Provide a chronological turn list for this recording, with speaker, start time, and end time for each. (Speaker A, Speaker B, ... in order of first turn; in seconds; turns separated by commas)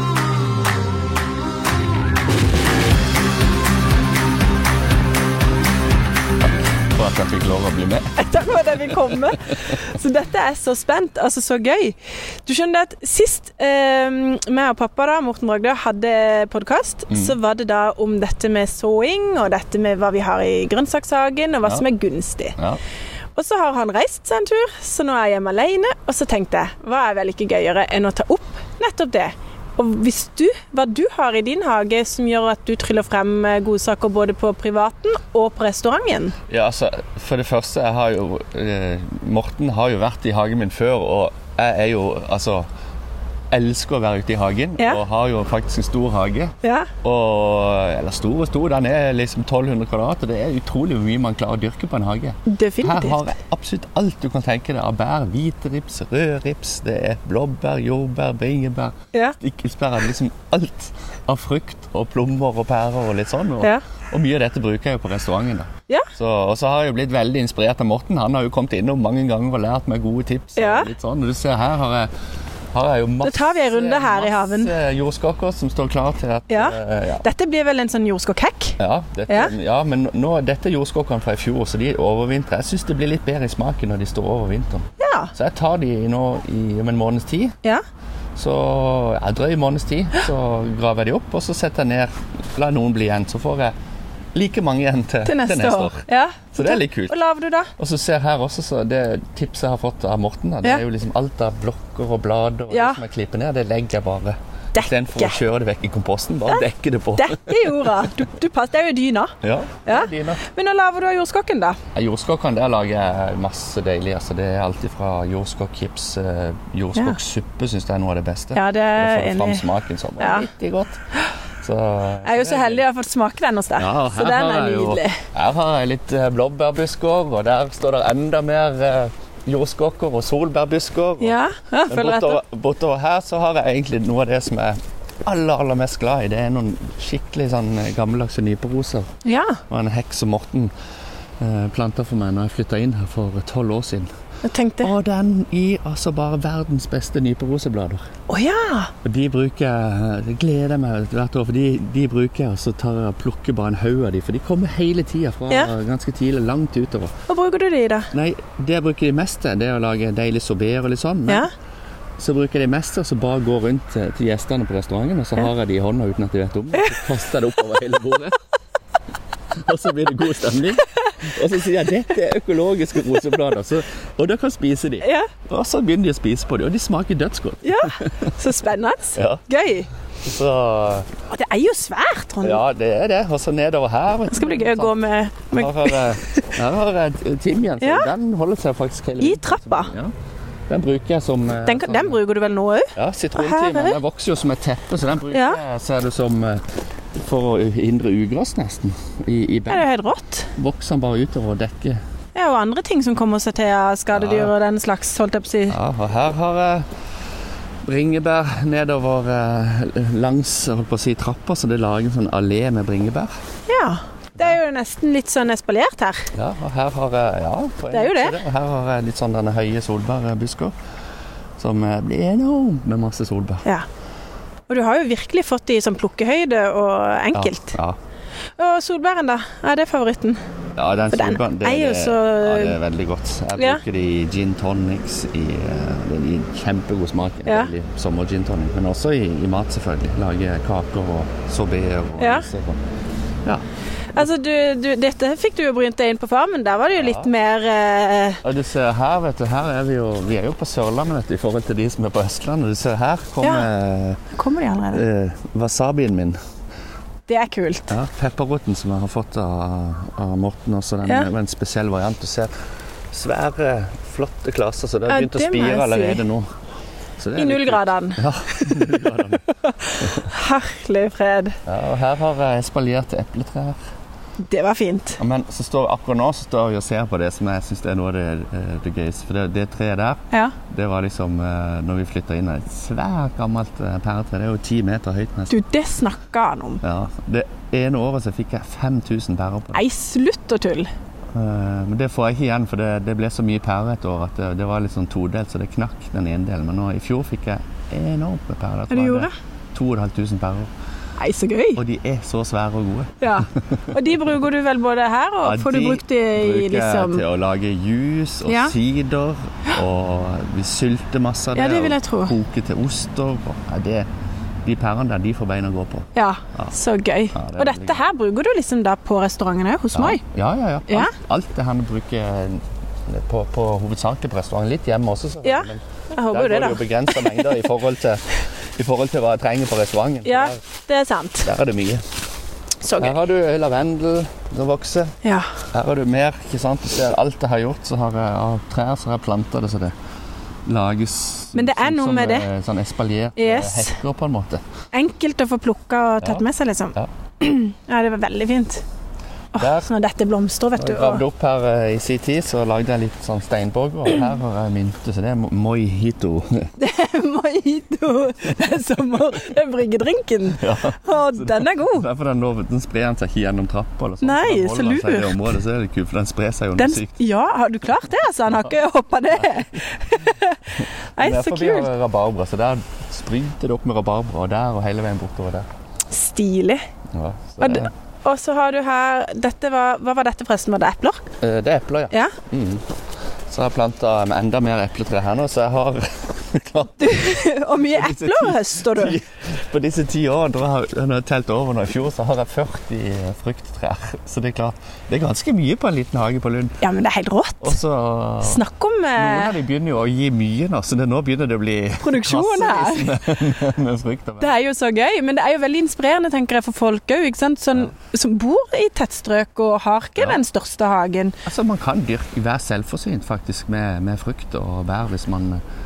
Speaker A: 6.9-8.2, Speaker B: 8.2-22.6, Speaker A: 17.1-17.4, Speaker B: 23.4-36.4, Speaker A: 36.5-42.7, Speaker A: 43.5-72.1, Speaker B: 46.6-46.9, Speaker B: 52.5-53.3, Speaker B: 70.6-70.9, Speaker A: 72.7-77.3, Speaker B: 73.2-74.7, Speaker B: 76.5-78.8, Speaker A: 78.8-87.6, Speaker B: 79.3-79.5, Speaker B: 85.0-85.3, Speaker A: 88.4-93.7, Speaker A: 94.3-97.2, Speaker B: 95.2-97.7, Speaker A: 97.8-108.1, Speaker B: 102.7-103.0, Speaker B: 104.7-105.4, Speaker B: 107.2-109.3, Speaker A: 109.4-110.4, Speaker B: 109.9-111.8, Speaker A: 112.0-121.0, Speaker B: 118.5-119.7, Speaker B: 120.2-120.5, Speaker A: 121.6-122.8, Speaker B: 122.2-125.2, Speaker A: 123.8-131.4, Speaker B: 131.2-132.4, Speaker A: 131.9-139.1, Speaker B: 139.2-139.6, Speaker A: 139.7-140.7, Speaker A: 141.4-144.1, Speaker B: 144.4-144.9, Speaker A: 144.8-148.0, Speaker B: 148.3-148.9, Speaker A: 149.0-157.1, Speaker B: 157.3-158.1, Speaker A: 158.1-161.5, Speaker A: 162.2-168.4, Speaker A: 169.6-177.9, Speaker B: 175.0-175.3, Speaker B: 177.6-179.9, Speaker A: 179.2-179.4, Speaker A: 180.2-181.1, Speaker B: 181.3-182.6, Speaker A: 182.4-184.9, Speaker B: 184.3-186.5, Speaker A: 185.5-190.1, Speaker B: 187.8-188.1, Speaker B: 189.2-189.9, Speaker A: 190.7-192.2, Speaker B: 191.7-194.0, Speaker A: 192.9-196.6, Speaker B: 195.3-195.6, Speaker A: 197.2-199.9, Speaker B: 199.7-200.5, Speaker A: 200.6-202.0, Speaker B: 202.3-205.8, Speaker A: 204.1-204.5, Speaker A: 205.7-206.9, Speaker A: 207.8-213.3, Speaker B: 213.7-216.3, Speaker A: 216.3-220.7, Speaker B: 217.9-218.4, Speaker A: 221.6-223.7, Speaker B: 224.7-227.8, Speaker A: 227.3-228.0, Speaker B: 228.6-230.4, Speaker A: 230.8-242.8, Speaker B: 231.1-232.8, Speaker B: 233.6-233.8, Speaker B: 237.5-237.7, Speaker B: 242.2-242.5, Speaker B: 244.1-248.4, Speaker A: 246.9-247.3, Speaker A: 248.4-254.2, Speaker B: 253.4-253.7, Speaker B: 254.3-255.0, Speaker A: 254.9-256.4, Speaker B: 257.3-257.9, Speaker A: 257.9-262.5, Speaker A: 263.1-266.5, Speaker B: 265.1-266.2, Speaker A: 267.2-269.4, Speaker B: 267.4-268.9, Speaker B: 269.5-271.6, Speaker A: 270.0-270.3, Speaker A: 271.7-273.8, Speaker B: 274.4-275.2, Speaker A: 275.2-285.5, Speaker B: 285.5-286.8, Speaker A: 286.8-289.8, Speaker B: 289.7-290.9, Speaker A: 291.3-300.7, Speaker B: 298.9-299.3, Speaker B: 301.2-301.8, Speaker A: 301.8-304.1, Speaker B: 303.2-307.2, Speaker A: 305.4-314.1, Speaker B: 308.5-308.8, Speaker B: 311.6-312.4, Speaker A: 314.6-316.7, Speaker B: 316.1-320.2, Speaker A: 317.3-318.0, Speaker A: 319.9-330.6, Speaker B: 320.9-321.1, Speaker B: 325.4-327.5, Speaker B: 330.2-331.5, Speaker A: 331.4-332.0, Speaker B: 332.8-333.1, Speaker A: 333.0-335.1, Speaker B: 335.2-335.5, Speaker A: 335.7-339.9, Speaker A: 340.7-344.6, Speaker B: 341.6-342.5, Speaker B: 343.4-344.0, Speaker B: 344.9-348.8, Speaker A: 346.2-347.1, Speaker B: 349.5-351.2, Speaker A: 349.6-349.9, Speaker A: 350.8-356.7, Speaker B: 356.8-362.1, Speaker A: 360.6-367.1, Speaker B: 364.2-365.4, Speaker B: 366.8-371.9, Speaker A: 371.2-375.7, Speaker B: 376.1-376.8, Speaker A: 377.1-377.9, Speaker B: 377.6-381.3, Speaker A: 381.4-382.9, Speaker B: 382.1-382.4, Speaker A: 383.5-396.8, Speaker B: 387.0-389.2, Speaker B: 396.8-397.8, Speaker A: 397.6-398.6, Speaker B: 398.4-399.5, Speaker A: 399.2-404.5, Speaker B: 402.0-403.1, Speaker B: 404.4-411.4, Speaker A: 410.2-410.4, Speaker A: 411.4-415.6